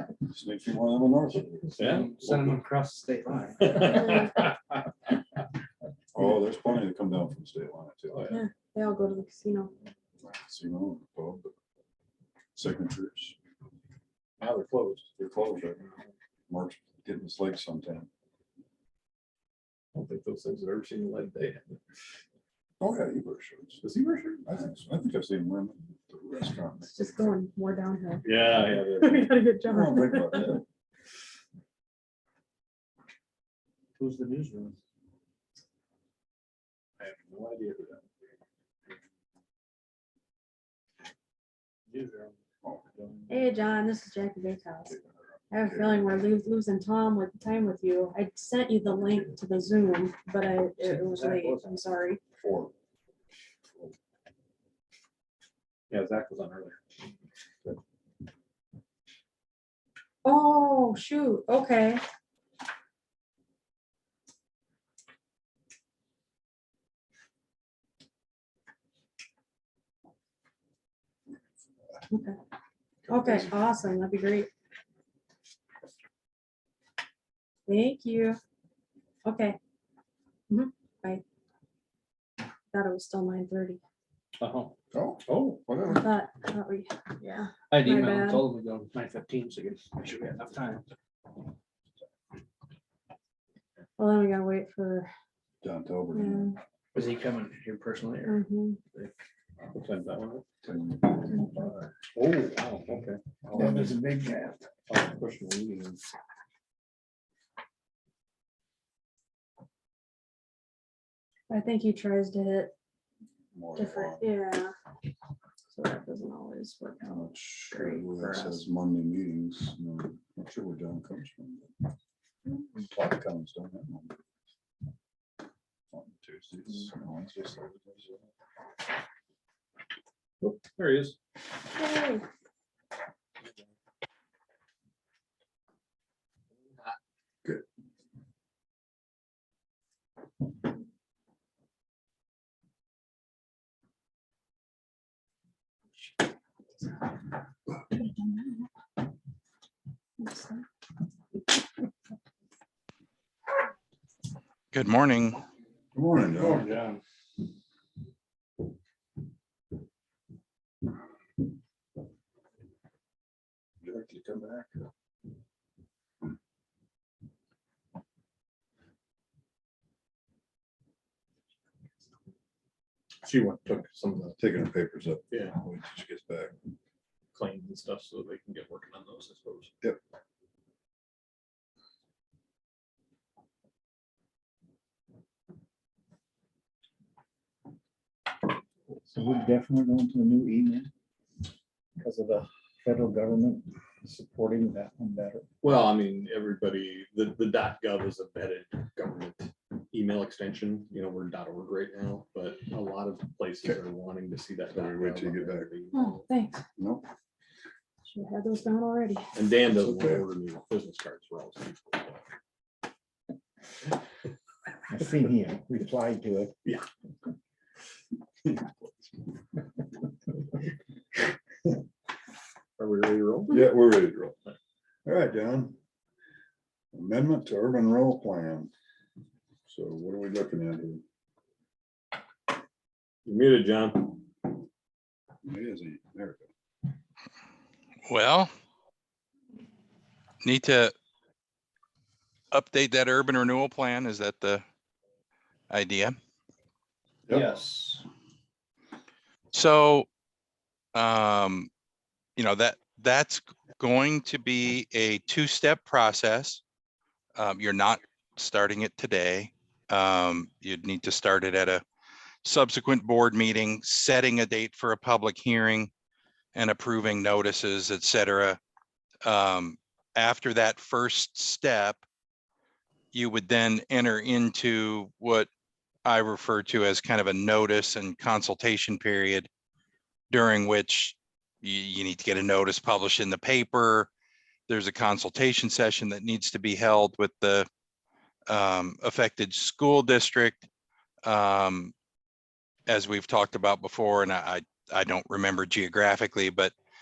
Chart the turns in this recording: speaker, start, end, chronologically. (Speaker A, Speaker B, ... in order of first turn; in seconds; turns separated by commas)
Speaker A: 0.3-1.8, Speaker B: 1.8-2.7, Speaker C: 1.9-4.1, Speaker B: 3.6-4.5, Speaker A: 6.1-8.3, Speaker B: 8.1-8.4, Speaker D: 8.3-9.7, Speaker A: 10.2-11.5, Speaker A: 12.5-13.3, Speaker B: 14.4-15.3, Speaker A: 15.2-15.8, Speaker A: 16.5-18.1, Speaker B: 19.9-21.8, Speaker A: 22.8-23.8, Speaker B: 23.8-24.5, Speaker A: 24.4-27.4, Speaker D: 26.8-30.5, Speaker B: 28.2-29.4, Speaker A: 29.6-30.6, Speaker C: 34.0-34.8, Speaker B: 37.0-38.0, Speaker C: 41.9-42.3, Speaker D: 43.3-45.0, Speaker A: 44.9-46.1, Speaker D: 45.5-52.2, Speaker C: 50.8-51.7, Speaker A: 52.4-52.7, Speaker B: 55.9-56.8, Speaker D: 60.2-62.0, Speaker D: 72.1-72.4, Speaker D: 73.1-74.5, Speaker D: 77.7-78.4, Speaker D: 79.2-79.6, Speaker D: 80.5-81.2, Speaker D: 82.7-83.8, Speaker C: 84.4-84.7, Speaker A: 84.9-86.1, Speaker D: 85.8-88.5, Speaker C: 87.7-90.8, Speaker D: 94.0-95.1, Speaker A: 95.6-96.5, Speaker D: 96.1-96.6, Speaker C: 96.9-98.4, Speaker D: 98.2-98.8, Speaker B: 99.7-100.5, Speaker A: 100.6-101.7, Speaker B: 102.1-103.9, Speaker A: 103.5-103.9, Speaker E: 103.6-104.6, Speaker B: 104.9-106.0, Speaker D: 111.5-112.7, Speaker A: 113.5-114.3, Speaker D: 113.7-114.7, Speaker D: 115.7-118.7, Speaker A: 117.0-121.7, Speaker A: 122.7-124.1, Speaker A: 125.9-128.1, Speaker B: 130.4-131.2, Speaker D: 131.7-132.2, Speaker B: 136.6-137.0, Speaker D: 147.9-148.7, Speaker D: 150.2-150.6, Speaker F: 154.7-155.4, Speaker A: 155.9-156.7, Speaker C: 156.5-157.0, Speaker A: 163.8-164.8, Speaker B: 173.2-174.4, Speaker A: 174.4-176.5, Speaker B: 177.3-179.7, Speaker E: 189.1-190.9, Speaker E: 192.0-195.5, Speaker B: 195.6-206.3, Speaker A: 204.7-205.7, Speaker D: 205.9-206.6, Speaker A: 206.8-207.1, Speaker D: 208.1-209.3, Speaker B: 209.3-212.2, Speaker A: 209.7-210.2, Speaker E: 214.9-216.5, Speaker A: 218.4-218.9, Speaker B: 222.8-223.7, Speaker A: 223.5-224.4, Speaker A: 225.1-225.8, Speaker A: 226.9-228.7, Speaker A: 229.7-231.0, Speaker B: 233.2-234.1, Speaker A: 235.4-236.5, Speaker F: 238.1-238.5, Speaker F: 240.4-240.9, Speaker F: 242.5-244.6, Speaker F: 245.7-246.2, Speaker C: 247.5-248.0, Speaker F: 249.5-250.1, Speaker F: 250.9-251.7, Speaker F: 252.4-256.6, Speaker F: 257.4-261.8, Speaker F: 262.4-265.9, Speaker F: 266.5-268.6, Speaker F: 269.2-272.0, Speaker F: 273.1-275.5, Speaker F: 276.0-279.5, Speaker F: 280.3-284.1, Speaker F: 284.7-287.7, Speaker F: 288.5-290.6, Speaker F: 291.2-291.9, Speaker F: 292.9-296.7